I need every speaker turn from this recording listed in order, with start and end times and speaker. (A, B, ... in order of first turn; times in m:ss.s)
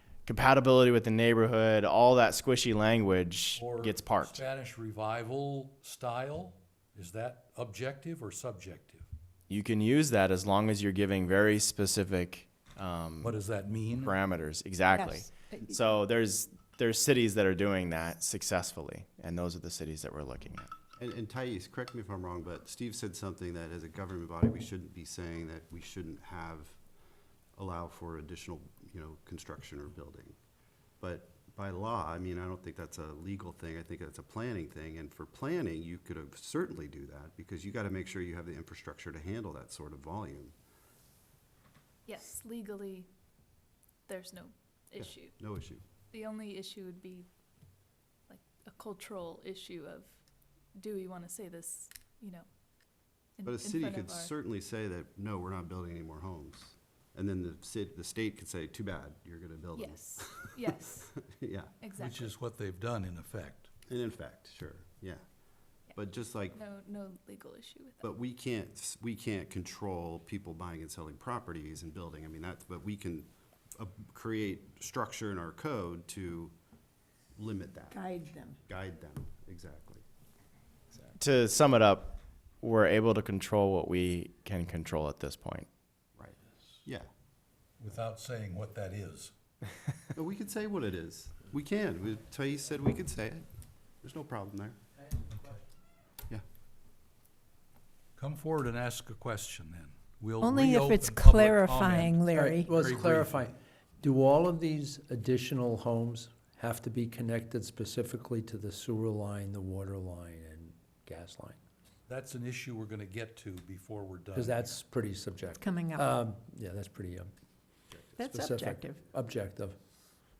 0:00.2-0:04.4 A
0:03.6-0:09.1 B
0:09.5-0:13.4 A
0:13.2-0:14.1 B
0:13.9-0:20.7 A
0:14.9-0:15.8 C
0:21.0-0:26.8 D
0:27.6-0:30.4 D
0:31.0-0:40.5 D
0:42.0-0:43.1 E
0:44.1-0:45.4 E
0:45.0-0:45.8 D
0:46.1-0:47.3 E
0:48.3-0:50.2 E
0:50.7-0:52.5 E
0:53.4-0:54.3 E
0:53.4-1:01.7 D
0:59.8-1:01.1 E
1:01.8-1:02.3 E
1:02.0-1:03.7 B
1:03.9-1:05.2 D
1:05.9-1:06.6 D
1:06.5-1:08.1 E
1:08.0-1:16.5 D
1:17.4-1:18.0 D
1:17.9-1:18.6 C
1:18.7-1:20.0 D
1:21.2-1:25.7 A
1:26.2-1:27.1 D
1:27.8-1:29.3 B
1:30.1-1:33.4 D
1:34.0-1:34.8 D
1:38.2-1:43.6 B
1:40.4-1:42.8 C
1:42.4-1:51.6 F
1:52.1-1:54.8 B
1:54.3-1:57.3 F
1:55.6-1:56.2 C
1:58.2-1:59.1 C
1:58.2-1:59.8 F